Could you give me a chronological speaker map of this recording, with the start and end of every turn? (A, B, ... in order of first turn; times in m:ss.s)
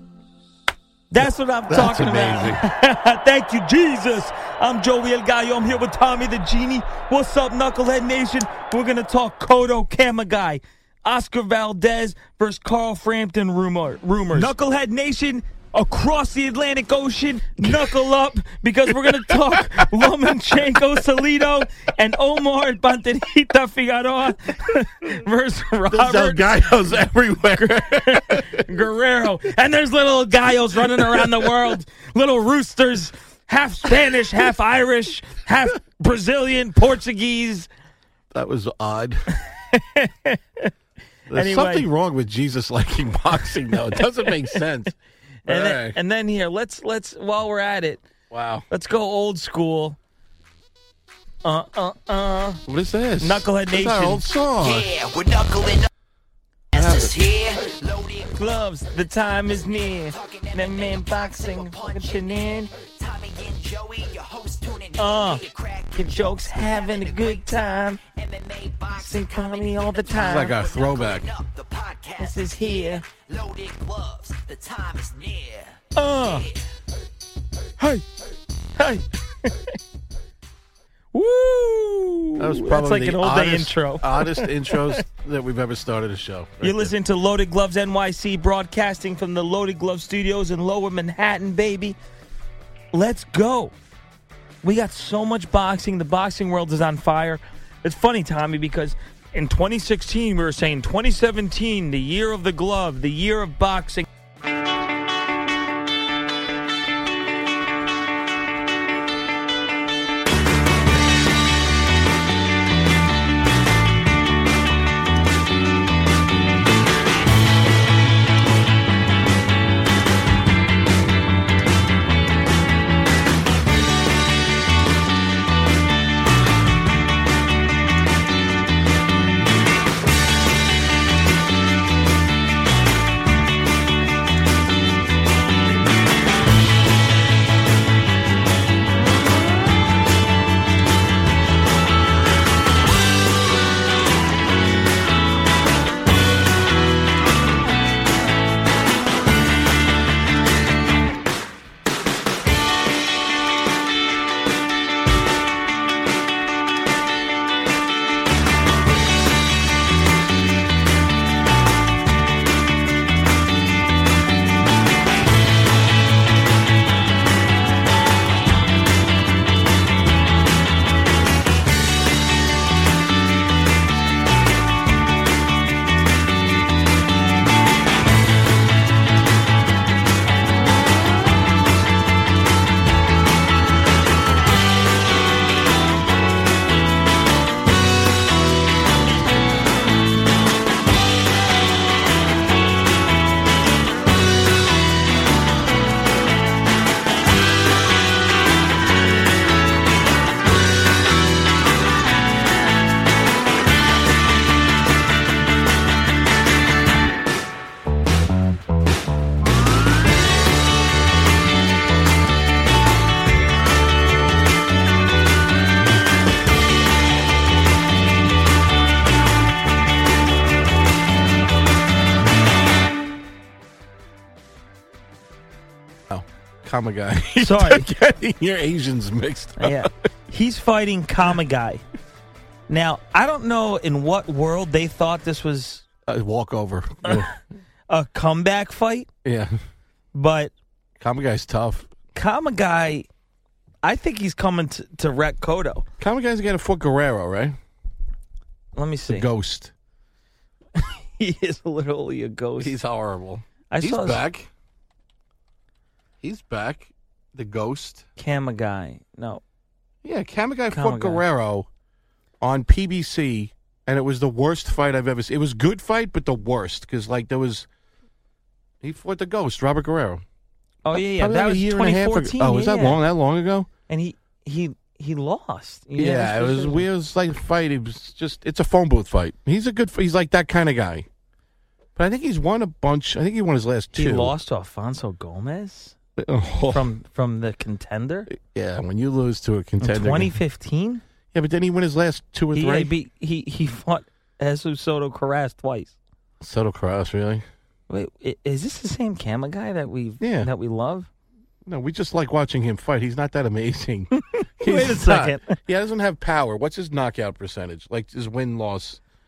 0:01.1-0:26.6 A
0:01.2-0:02.6 B
0:17.6-0:18.0 B
0:18.9-0:20.0 B
0:25.9-0:28.7 B
0:27.6-0:37.7 A
0:31.0-0:31.5 B
0:38.3-0:39.3 B
0:39.3-0:40.7 A
0:41.3-0:41.9 A
0:41.3-0:44.9 B
0:43.9-0:44.6 A
0:45.4-0:46.0 B
0:45.4-0:48.1 A
0:48.3-0:48.7 B
0:48.7-0:50.0 A
0:51.4-0:52.6 A
0:52.7-0:55.0 B
0:53.2-0:54.2 A
0:55.2-0:55.9 C
0:56.7-0:57.4 B
0:58.3-1:02.7 A
1:03.1-1:04.9 C
1:05.0-1:08.0 A
1:08.8-1:10.6 A
1:10.1-1:11.4 B
1:11.6-1:12.1 C
1:12.1-1:13.1 A
1:13.1-1:15.6 C
1:16.0-1:16.6 A
1:17.8-1:18.0 A
1:18.8-1:19.8 A
1:21.1-1:25.0 A
1:22.4-1:26.9 B
1:26.6-1:32.0 A
1:32.9-1:33.7 A
1:34.6-1:44.1 A
3:46.1-3:49.9 B
3:47.4-3:47.9 A
3:49.6-3:51.8 A
3:52.7-3:55.9 A
3:56.1-3:57.3 B
3:57.0-3:57.4 A
3:57.9-3:59.1 A
3:59.2-3:59.6 B
4:00.1-4:00.5 A
4:01.0-4:02.0 B
4:02.1-4:03.1 A
4:03.8-4:05.9 A
4:06.0-4:07.6 B
4:08.8-4:09.3 A
4:09.1-4:09.7 B
4:10.8-4:12.8 A
4:12.6-4:14.5 B
4:13.7-4:14.2 A
4:16.2-4:18.1 B
4:18.2-4:19.4 A
4:20.0-4:21.7 B
4:20.7-4:21.2 A
4:22.4-4:27.7 B
4:28.8-4:30.2 B
4:30.8-4:33.0 A
4:30.9-4:33.7 B
4:33.9-4:36.9 A
4:36.0-4:41.1 B
4:42.0-4:44.4 B
4:44.0-4:46.0 A
4:46.2-4:46.9 B
4:46.7-4:48.3 A
4:48.3-4:50.4 B
4:49.8-4:51.0 A
4:51.3-4:52.9 B
4:52.6-4:56.0 A
4:56.4-4:57.5 B
4:57.9-5:01.1 A
5:00.2-5:00.5 B
5:01.6-5:09.0 B
5:04.2-5:05.6 A